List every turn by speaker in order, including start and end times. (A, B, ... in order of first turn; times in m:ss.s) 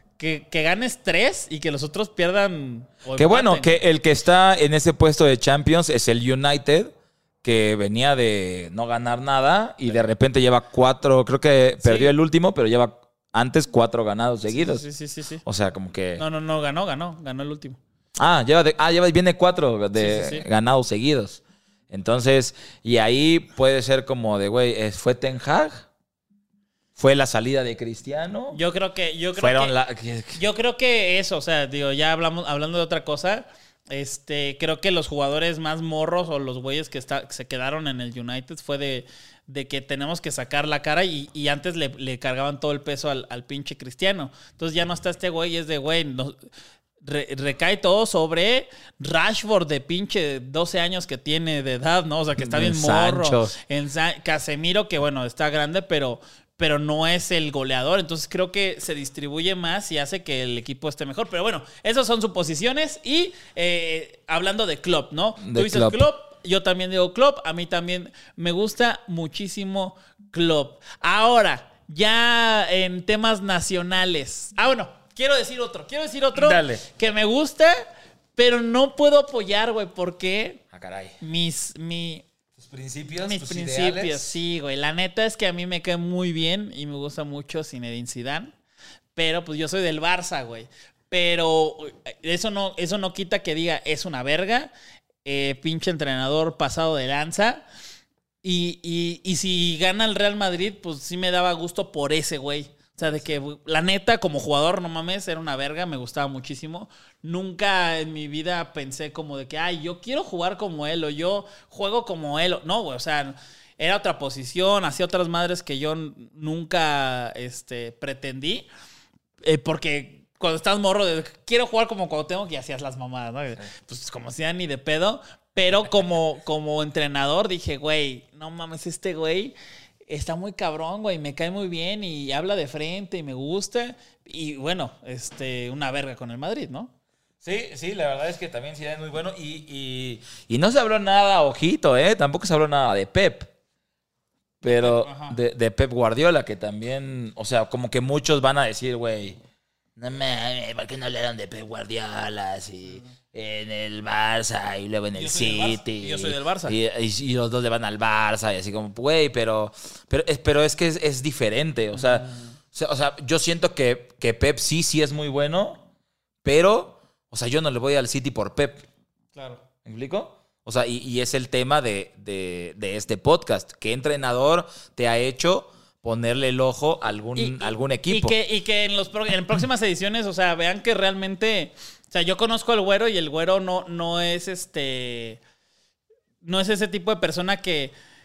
0:00.2-0:03.7 A
0:03.2-0:14.8 B
0:11.8-0:12.1 A
0:14.5-0:15.4 A
0:15.4-0:16.2 B
0:16.2-0:17.8 A
0:18.2-0:25.9 B
0:20.0-0:20.5 A
0:27.0-0:28.6 B
0:28.5-0:29.7 A
0:29.4-0:30.4 B
0:30.4-0:46.4 A
0:47.0-1:20.6 A
0:52.4-0:53.6 B
1:05.4-1:06.1 B
1:16.4-1:16.8 B
1:20.7-1:21.2 B
1:21.2-1:22.3 A
1:22.6-1:24.4 B
1:23.2-1:28.5 A
1:29.2-1:34.7 A
1:35.2-1:37.6 A
1:38.4-1:58.7 A
1:59.4-2:09.6 A
2:10.1-2:16.9 A
2:17.4-2:23.5 B
2:24.6-2:29.4 B
2:24.6-2:25.4 A
2:30.0-2:45.8 B
2:35.1-2:36.8 A
2:41.9-2:42.6 A
2:46.4-2:48.9 B
2:49.4-2:49.6 A
2:49.8-2:58.4 B
2:57.4-3:05.4 A
3:06.4-3:07.9 A